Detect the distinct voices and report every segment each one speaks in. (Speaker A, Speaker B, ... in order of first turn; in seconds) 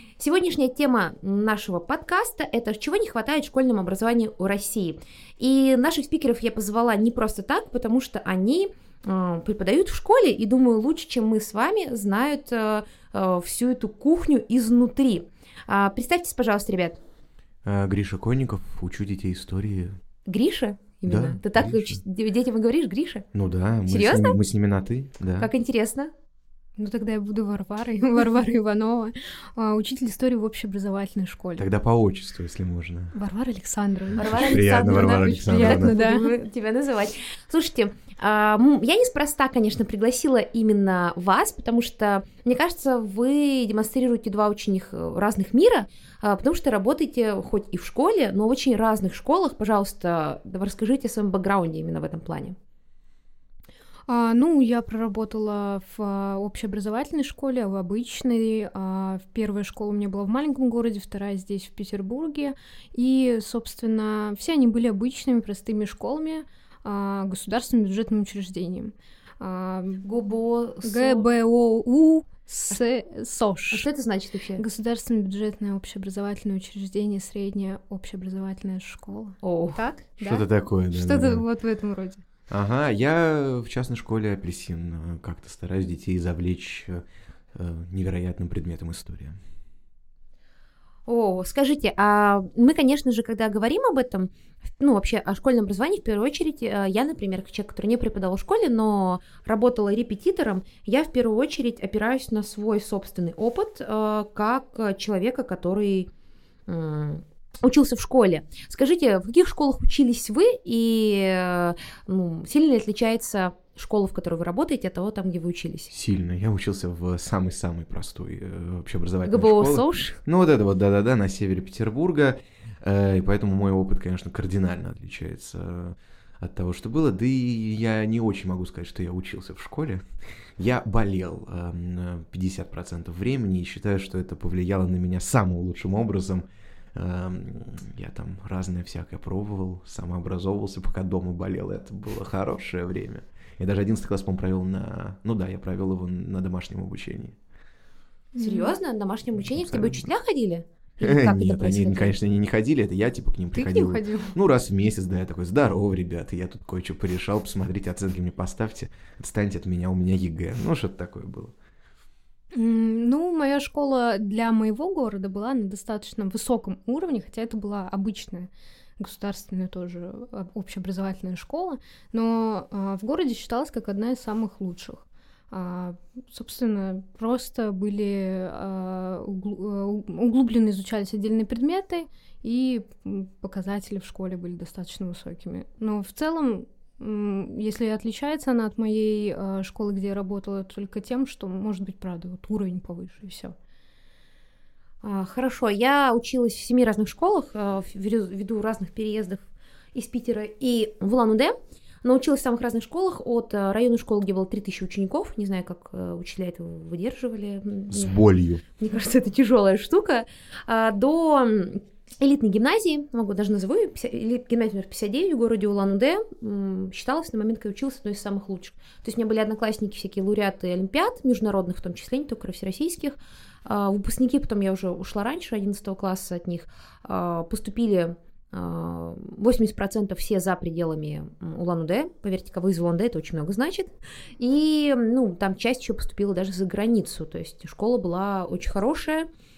Speaker A: 0.2-17.0, 20.3-23.2, 23.9-24.4, 25.4-26.1, 34.2-52.6, 70.0-71.2, 73.7-74.6, 79.4-79.8, 91.1-106.1, 106.7-115.9, 119.3-120.2, 148.4-152.1, 195.0-199.4, 199.9-208.2, 208.8-239.3
Speaker B: 17.6-20.0, 21.1-22.0, 23.3-25.5, 31.6-33.1, 34.3-35.9, 80.2-81.4, 82.5-89.4, 115.9-130.1, 130.6-147.4, 149.6-150.1, 151.0-161.5, 207.9-208.6
Speaker C: 26.8-31.7, 33.1-36.3, 54.1-70.1, 70.8-73.9, 74.6-82.2, 148.3-148.7, 153.5-154.3, 162.5-193.6